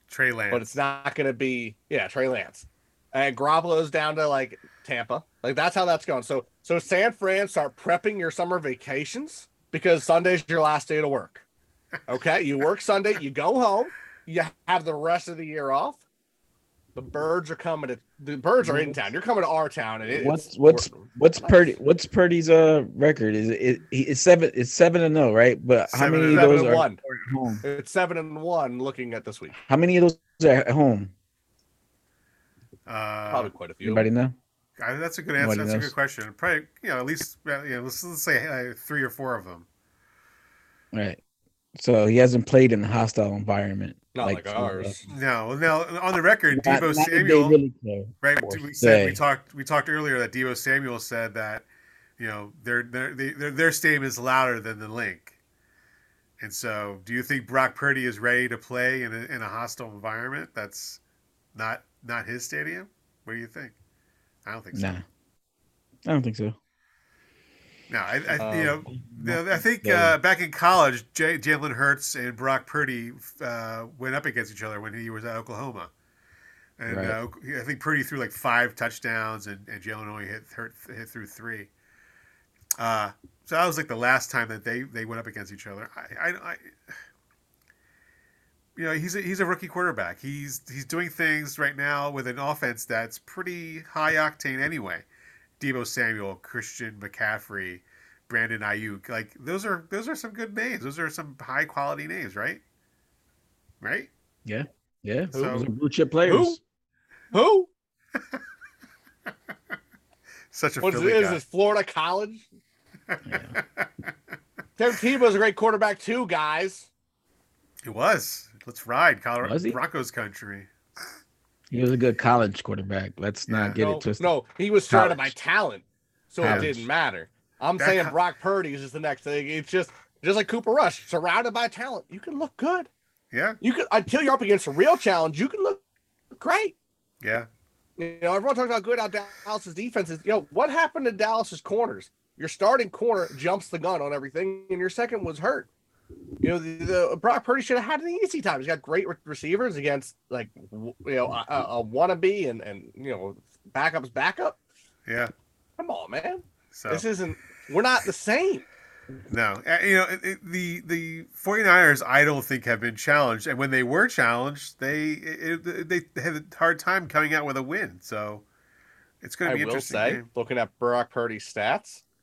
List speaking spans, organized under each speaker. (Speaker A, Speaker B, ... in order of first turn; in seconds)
Speaker A: 0.1-0.8, 25.9-26.8, 32.9-33.5, 34.8-39.6, 45.1-47.6, 48.2-51.6, 52.2-55.4, 56.4-61.0, 61.5-63.7, 64.4-65.0, 67.9-75.9, 76.8-81.7, 82.8-86.9, 88.8-95.0, 95.6-102.6, 103.8-104.1, 105.3-105.7, 110.5-111.4, 113.1-113.9, 117.8-120.7, 123.5-123.8, 126.4-126.7, 127.8-128.1, 133.3-133.6, 137.2-137.5, 155.1-155.3, 156.7-157.0, 159.3-168.4, 169.2-170.2
Speaker B: 0.5-11.4, 12.1-16.0, 16.9-21.7, 26.2-27.0, 27.6-29.5, 33.3-34.1, 44.1-45.1, 68.4-68.8, 106.2-106.6, 107.3-107.7, 110.8-112.5, 114.8-116.9, 123.8-132.9, 133.6-135.8, 136.4-136.7, 138.0-145.7, 146.4-154.6, 155.8-158.7, 169.4-172.0
Speaker C: 18.6-18.9, 20.1-27.6, 29.6-31.1, 33.8-34.3, 35.4-35.9, 40.9-41.2, 41.7-45.0, 46.5-49.2, 64.7-65.0, 66.0-66.5, 68.9-70.2, 76.9-77.2, 104.4-106.6, 113.2-113.5, 119.4-119.8, 121.7-124.3, 124.9-125.3, 126.4-126.8